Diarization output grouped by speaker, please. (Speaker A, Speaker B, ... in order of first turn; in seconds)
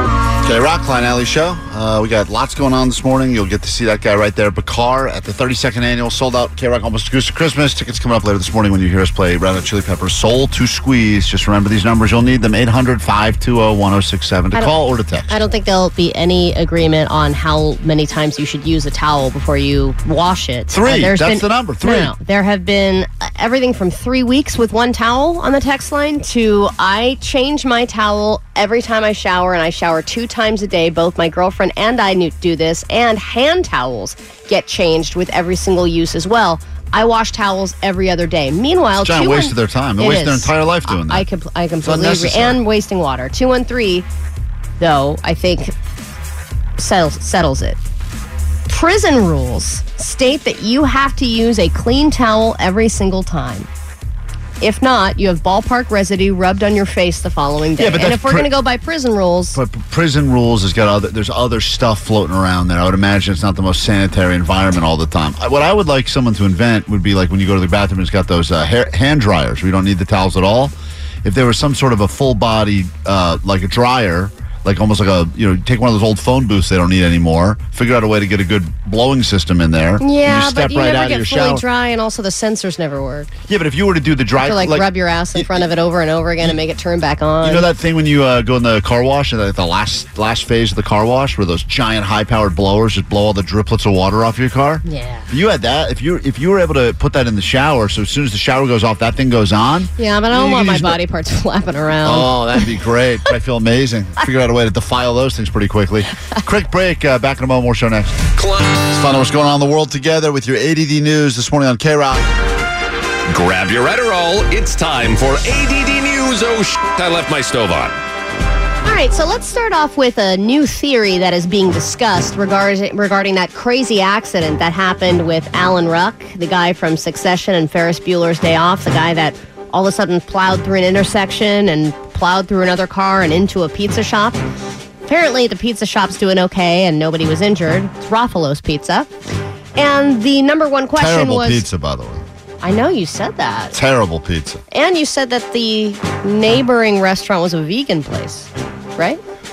Speaker A: 0.4-15.4, 20.7-22.1, 39.0-41.2, 41.8-42.6, 57.8-58.5, 59.5-81.6, 83.5-85.7, 87.4-101.0, 102.0-108.2, 108.9-112.3, 141.0-142.2, 143.7-144.6
Speaker B: 15.3-44.1, 44.8-45.7, 46.8-47.8, 48.7-53.7, 54.6-59.6, 80.0-83.3, 84.4-87.7, 94.8-95.3, 100.0-102.7, 118.8-134.4, 135.1-139.1, 139.8-141.7, 142.6-143.8, 144.7-149.2
Speaker C: 108.4-108.8, 113.3-118.0